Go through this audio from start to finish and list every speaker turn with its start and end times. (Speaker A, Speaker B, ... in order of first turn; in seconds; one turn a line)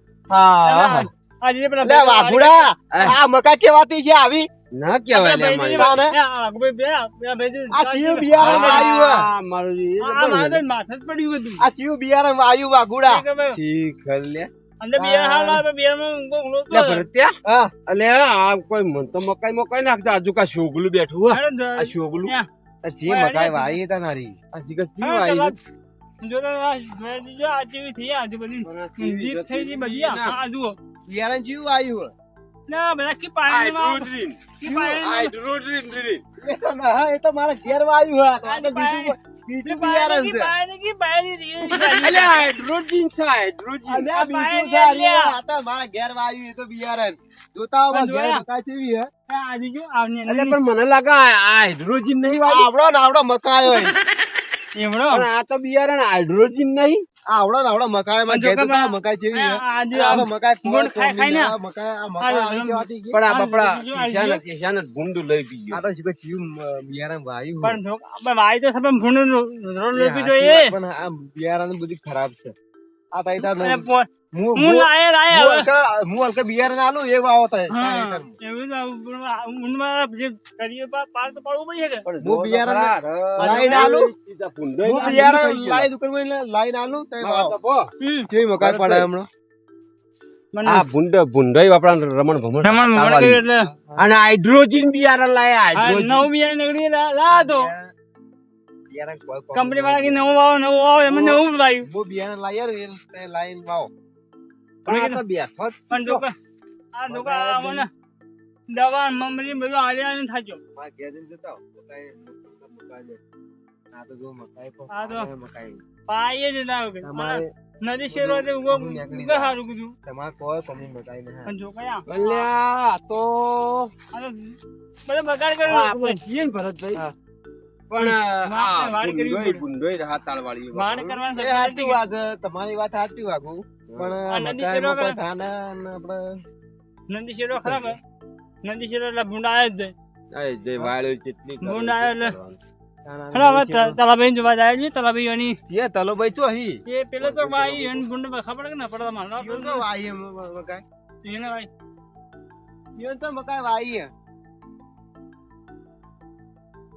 Speaker A: 0.3-1.1
Speaker B: 0.6-2.7
Speaker C: 1.8-4.5
Speaker A: 4.7-5.9
Speaker B: 5.1-8.9
Speaker C: 5.8-6.2
Speaker C: 7.7-9.3
Speaker A: 8.4-10.6
Speaker B: 10.0-11.6
Speaker C: 11.6-13.2
Speaker B: 13.1-13.6
Speaker A: 13.5-14.5
Speaker B: 14.8-17.0
Speaker C: 15.0-15.6
Speaker A: 16.7-22.3
Speaker C: 17.4-17.7
Speaker B: 21.3-22.5
Speaker C: 22.8-24.4
Speaker B: 23.1-23.8
Speaker A: 24.5-25.6
Speaker B: 25.0-25.6
Speaker B: 26.2-30.8
Speaker A: 28.6-30.4
Speaker C: 31.1-32.1
Speaker B: 32.7-34.1
Speaker A: 33.5-36.2
Speaker B: 34.6-35.3
Speaker C: 34.6-34.9
Speaker C: 36.4-40.5
Speaker B: 38.5-42.4
Speaker A: 41.7-44.1
Speaker C: 43.9-49.1
Speaker B: 44.1-45.4
Speaker B: 47.9-48.4
Speaker B: 49.3-50.6
Speaker A: 50.3-52.7
Speaker C: 52.4-54.0
Speaker B: 54.8-55.3
Speaker A: 55.1-57.0
Speaker C: 57.3-63.2
Speaker B: 58.3-61.5
Speaker B: 62.2-64.4
Speaker A: 63.1-65.8
Speaker C: 65.7-67.8
Speaker B: 67.6-70.7
Speaker C: 70.0-72.5
Speaker C: 73.1-73.8
Speaker B: 73.5-75.7
Speaker C: 74.3-78.3
Speaker B: 77.7-82.0
Speaker A: 82.1-85.9
Speaker C: 82.2-84.1
Speaker B: 83.4-84.0
Speaker C: 84.8-87.6
Speaker A: 87.2-87.8
Speaker B: 88.0-88.3
Speaker C: 88.3-89.3
Speaker A: 88.6-89.1
Speaker B: 90.5-90.8
Speaker A: 90.7-93.4
Speaker B: 92.6-93.7
Speaker A: 94.0-96.3
Speaker B: 95.8-97.7
Speaker C: 97.3-97.9
Speaker C: 98.9-100.3
Speaker B: 99.5-101.9
Speaker C: 101.1-103.9
Speaker A: 104.8-106.2
Speaker B: 104.9-105.2
Speaker B: 105.9-106.3
Speaker B: 107.0-107.9
Speaker C: 107.1-107.9
Speaker B: 108.7-110.6
Speaker C: 110.8-113.2
Speaker C: 113.9-115.8
Speaker B: 114.9-115.3
Speaker B: 116.1-120.0
Speaker C: 117.0-117.5
Speaker C: 118.1-121.5
Speaker B: 121.5-122.5
Speaker A: 122.1-123.9
Speaker B: 124.1-126.2
Speaker A: 125.7-127.0
Speaker A: 127.9-131.2
Speaker B: 128.0-129.6
Speaker B: 130.7-132.0
Speaker C: 131.3-136.4
Speaker B: 134.3-135.2
Speaker B: 137.1-138.0
Speaker C: 137.6-137.9
Speaker B: 138.6-139.9
Speaker A: 140.3-142.6
Speaker B: 141.6-142.3
Speaker C: 143.0-144.0
Speaker B: 143.3-145.6
Speaker C: 145.7-146.8
Speaker B: 146.9-149.8
Speaker A: 147.2-148.0
Speaker C: 149.4-150.8
Speaker B: 151.2-151.7
Speaker C: 153.0-154.1